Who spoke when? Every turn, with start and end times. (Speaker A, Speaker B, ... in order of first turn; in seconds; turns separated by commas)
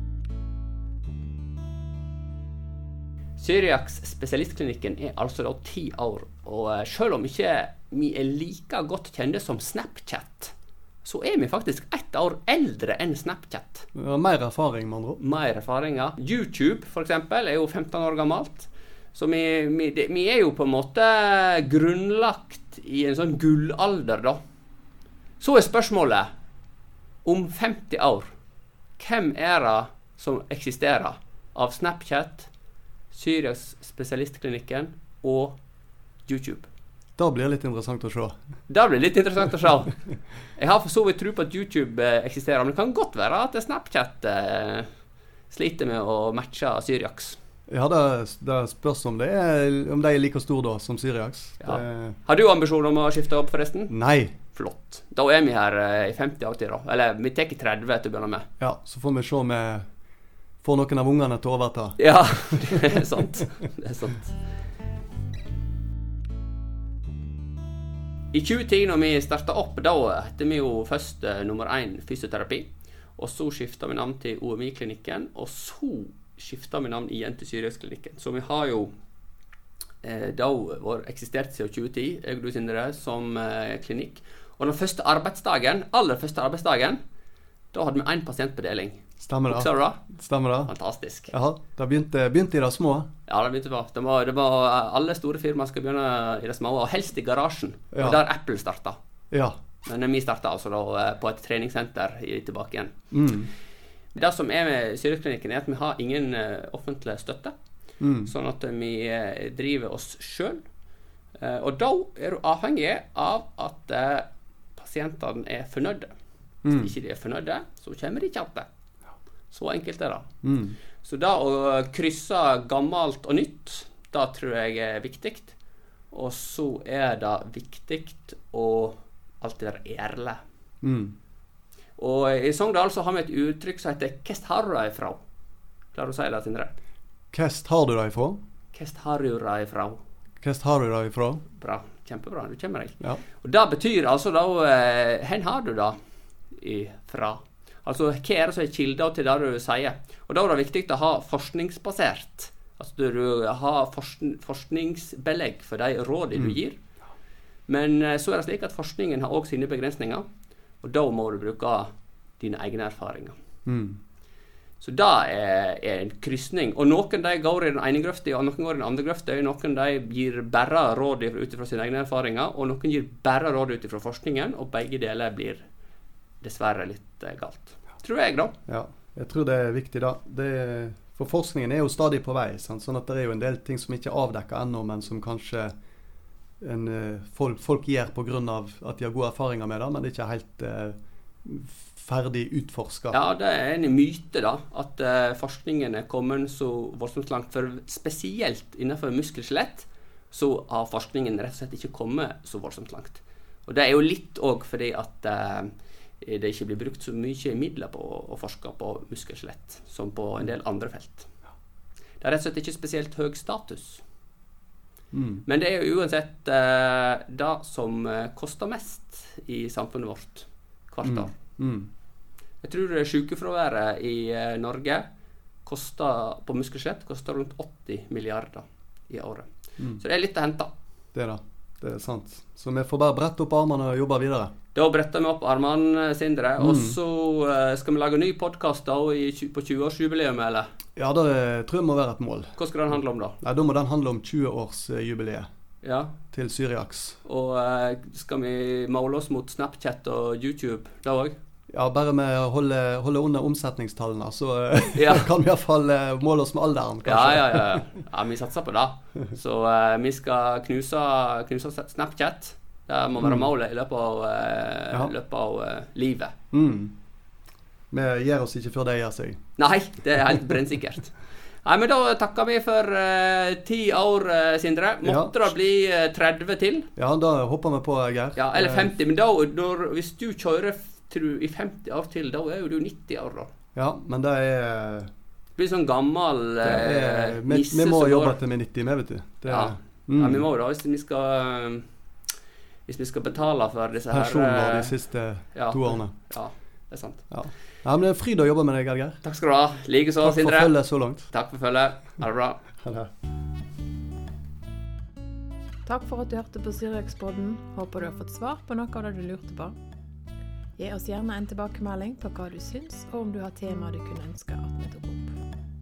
Speaker A: 3.4-13.8, Speaker B: 13.9-15.2, Speaker A: 15.2-24.4, Speaker A: 25.4-26.3, Speaker A: 27.2-28.3, Speaker A: 29.0-32.5, Speaker A: 33.1-35.6, Speaker A: 36.2-36.7, Speaker B: 37.2-38.3, Speaker A: 38.7-40.0, Speaker A: 40.5-44.9, Speaker A: 45.5-47.4, Speaker B: 47.7-52.2, Speaker A: 51.6-53.9, Speaker B: 53.9-54.4, Speaker A: 54.4-58.5, Speaker B: 58.6-59.9, Speaker B: 60.6-62.5, Speaker A: 62.0-64.3, Speaker A: 68.3-78.9, Speaker A: 80.0-87.0, Speaker A: 87.7-90.0, Speaker B: 89.2-90.7, Speaker A: 90.6-91.3, Speaker B: 91.3-93.1, Speaker A: 93.3-99.0, Speaker B: 97.9-98.2, Speaker A: 99.8-103.0, Speaker B: 103.1-103.5, Speaker A: 104.1-107.5, Speaker B: 108.0-108.3, Speaker A: 108.2-110.6, Speaker A: 111.4-116.1, Speaker B: 116.6-116.9, Speaker A: 116.7-118.7, Speaker A: 119.5-120.3, Speaker B: 120.4-120.8, Speaker A: 121.0-125.5, Speaker A: 126.1-130.4, Speaker B: 130.8-131.2, Speaker A: 132.0-135.2, Speaker A: 135.9-136.7, Speaker B: 137.3-138.4, Speaker A: 138.7-140.0, Speaker B: 140.4-141.4, Speaker A: 141.6-145.9, Speaker A: 146.5-156.8, Speaker A: 157.7-160.2, Speaker A: 160.8-163.3, Speaker B: 163.7-164.0, Speaker A: 164.8-175.6, Speaker A: 176.4-178.5, Speaker B: 178.7-185.7, Speaker B: 186.6-193.2, Speaker A: 193.1-211.3, Speaker A: 212.2-214.0, Speaker B: 215.1-215.4, Speaker A: 215.4-221.3, Speaker B: 221.0-221.9, Speaker A: 222.6-225.0, Speaker A: 225.6-229.5, Speaker A: 230.0-230.7, Speaker B: 231.1-234.5, Speaker A: 234.7-240.7, Speaker B: 236.6-237.0, Speaker B: 240.9-242.5, Speaker A: 242.6-243.4, Speaker B: 243.4-245.5, Speaker A: 245.8-246.1, Speaker B: 246.3-247.2, Speaker A: 247.2-251.3, Speaker B: 251.7-257.9, Speaker A: 254.9-255.3, Speaker A: 257.0-266.3, Speaker B: 263.2-263.5, Speaker B: 266.5-266.9, Speaker B: 267.9-269.4, Speaker A: 269.6-276.9, Speaker B: 275.0-275.5, Speaker B: 276.9-278.9, Speaker A: 278.4-283.5, Speaker B: 283.7-285.1, Speaker A: 285.6-288.4, Speaker B: 286.6-290.4, Speaker A: 289.4-291.9, Speaker A: 292.9-294.9, Speaker B: 294.1-296.1, Speaker A: 295.5-297.2, Speaker B: 297.3-299.2, Speaker A: 299.2-300.7, Speaker B: 300.2-301.3, Speaker A: 301.2-302.6, Speaker B: 302.8-303.1, Speaker C: 305.9-309.7, Speaker C: 310.8-315.3